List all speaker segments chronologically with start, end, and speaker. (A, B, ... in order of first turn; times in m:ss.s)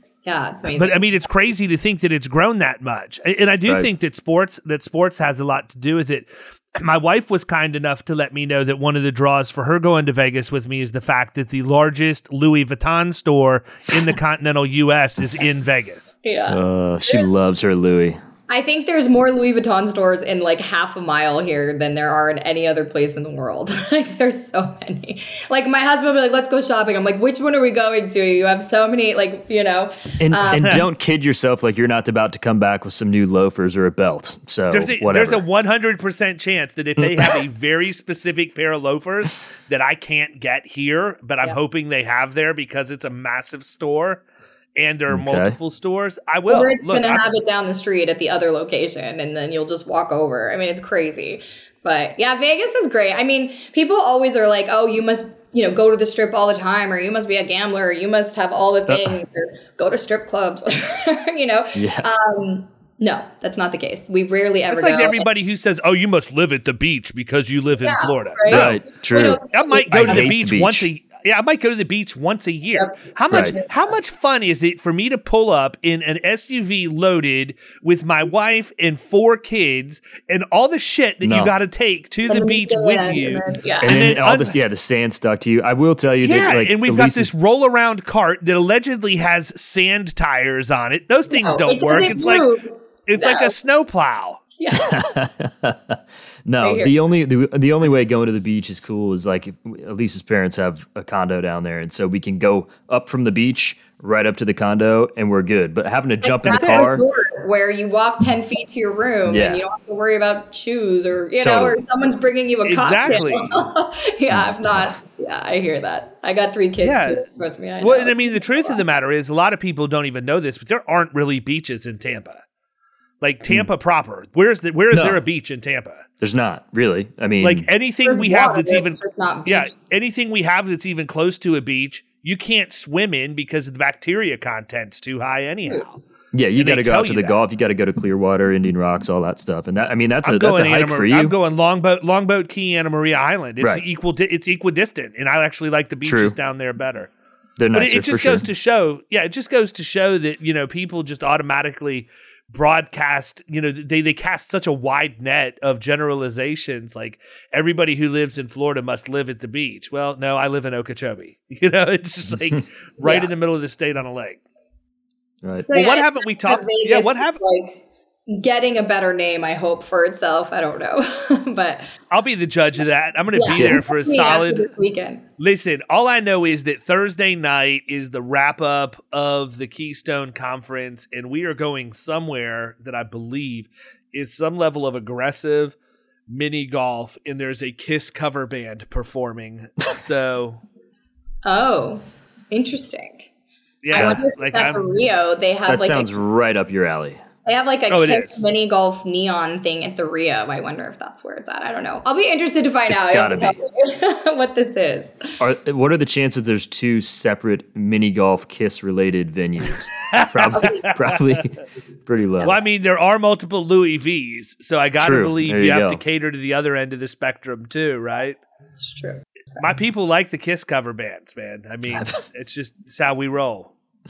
0:00.3-0:01.0 A
0:00.8-0:16.2 B
0:16.2-0:17.2 A
0:16.5-0:18.2 C
0:18.5-0:30.8 A
0:30.2-0:35.4 C
0:34.7-0:44.2 B
0:37.0-0:37.4 C
0:44.8-0:47.2 B
0:45.1-0:45.6 C
0:46.5-1:05.2 A
1:01.8-1:02.1 C
1:04.7-1:08.8 B
1:07.8-1:10.3 A
1:08.5-1:10.9 C
1:09.5-1:24.6 B
1:12.8-1:13.7 A
1:21.2-1:21.5 C
1:22.3-1:24.2 A
1:23.8-1:27.3 C
1:26.2-1:32.5 B
1:31.3-1:33.5 A
1:33.1-1:34.4 B
1:34.6-1:35.1 A
1:34.7-1:47.0 C
1:36.6-1:37.0 A
1:46.2-1:58.8 A
1:49.2-1:49.6 C
1:51.4-1:51.8 C
1:52.7-1:53.6 B
1:54.3-1:54.9 C
1:56.8-1:57.3 B
1:57.8-2:02.4 B
2:03.2-2:06.1 B
2:04.9-2:05.2 C
2:06.2-2:07.7 C
2:07.4-2:16.0 B
2:08.0-2:09.8 A
2:16.3-2:21.4 C
2:16.6-2:17.4 B
2:20.2-2:27.1 B
2:26.0-2:26.4 C
2:27.6-2:28.5 C
2:27.7-2:44.4 B
2:43.0-2:43.3 A
2:45.4-2:45.7 C
2:45.7-2:51.9 A
2:45.7-2:47.4 B
2:52.1-2:54.7 B
2:53.4-2:55.2 A
2:53.5-2:53.8 C
2:55.4-3:05.8 B
3:06.3-3:10.6 B
3:11.4-3:13.3 A
3:13.8-3:14.8 B
3:13.9-3:16.1 A
3:15.7-3:17.2 C
3:17.5-3:25.4 A
3:17.9-3:18.4 B
3:22.9-3:23.6 C
3:25.4-3:32.6 C
3:30.1-3:31.2 B
3:30.5-3:31.0 A
3:32.4-3:38.4 B
3:35.0-3:36.0 C
3:38.8-3:39.6 A
3:39.6-3:43.7 B